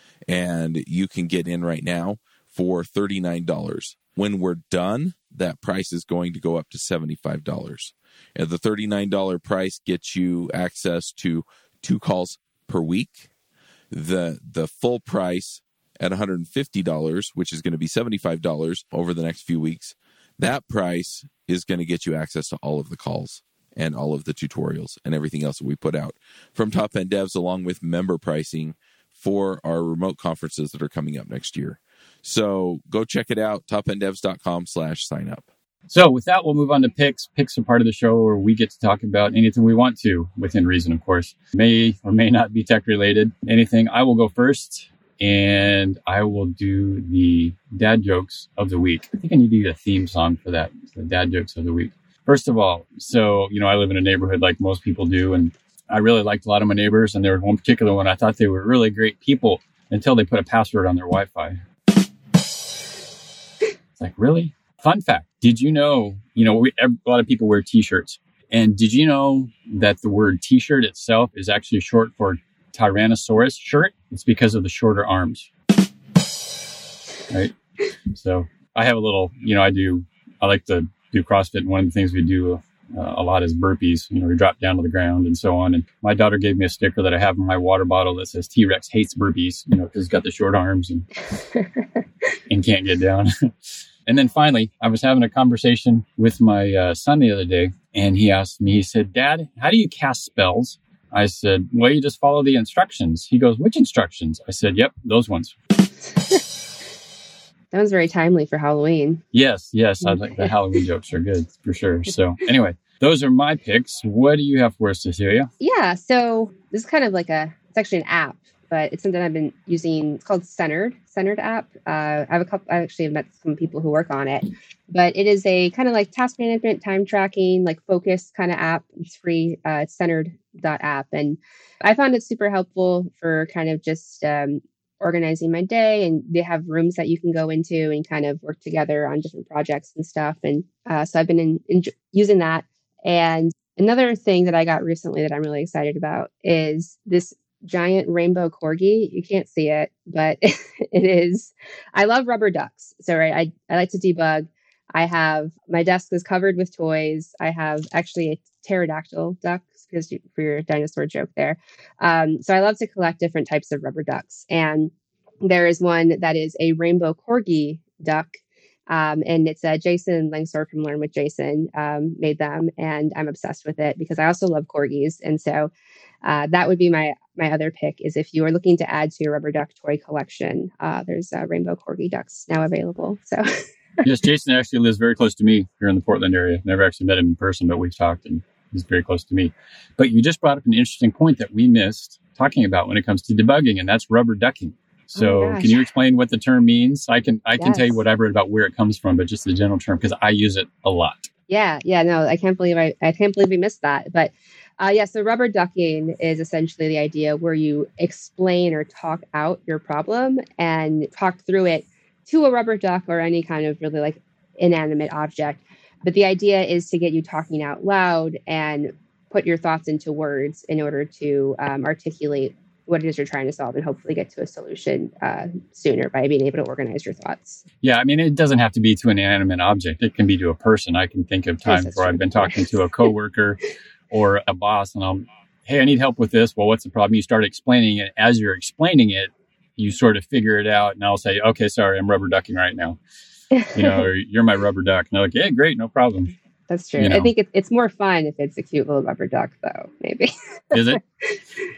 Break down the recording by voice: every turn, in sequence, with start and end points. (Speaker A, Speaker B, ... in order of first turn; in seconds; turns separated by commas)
Speaker A: 0.3-13.3, Speaker A: 13.9-35.5, Speaker B: 35.9-61.6, Speaker B: 64.0-75.5, Speaker B: 77.3-77.5, Speaker B: 78.1-91.1, Speaker C: 91.5-91.8, Speaker B: 92.5-105.5, Speaker C: 107.7-109.2, Speaker B: 109.3-115.5, Speaker C: 110.0-110.5, Speaker C: 115.6-164.9, Speaker C: 165.4-175.7, Speaker C: 176.2-183.7, Speaker B: 184.0-201.3, Speaker C: 195.1-195.8, Speaker C: 197.6-198.0, Speaker C: 201.5-227.6, Speaker B: 227.8-243.0, Speaker C: 231.7-233.1, Speaker C: 243.5-244.1, Speaker B: 243.7-246.3, Speaker C: 246.7-251.4, Speaker B: 247.0-247.3, Speaker B: 250.7-251.0